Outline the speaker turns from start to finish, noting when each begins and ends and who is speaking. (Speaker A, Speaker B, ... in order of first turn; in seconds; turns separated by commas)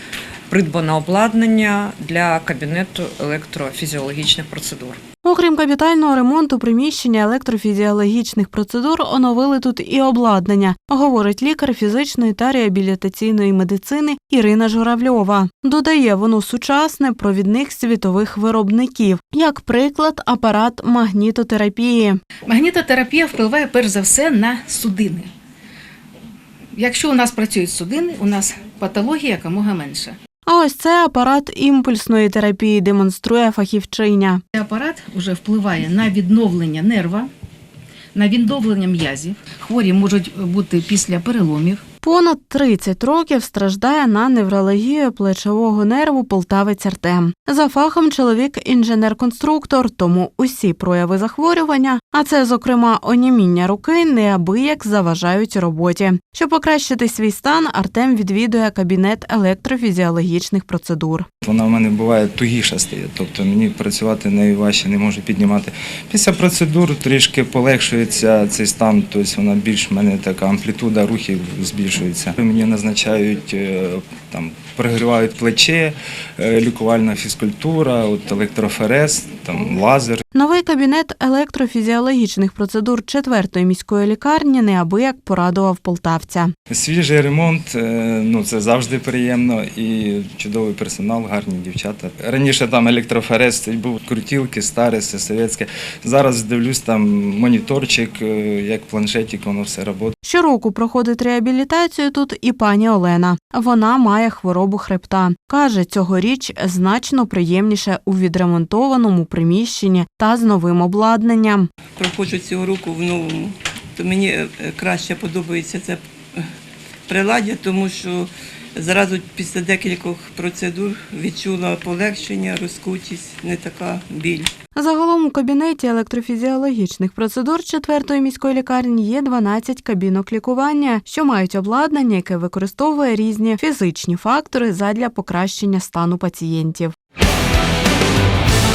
Speaker A: 0.5-5.0, Speaker B: 5.2-22.2, Speaker C: 22.5-25.3, Speaker C: 26.7-30.2, Speaker B: 30.5-34.4, Speaker C: 34.5-37.3, Speaker C: 38.1-41.8, Speaker B: 42.0-61.3, Speaker D: 61.4-80.2, Speaker B: 80.3-86.5, Speaker D: 86.7-100.1, Speaker B: 100.2-111.7, Speaker E: 112.0-116.4, Speaker E: 117.1-124.5, Speaker B: 124.8-136.9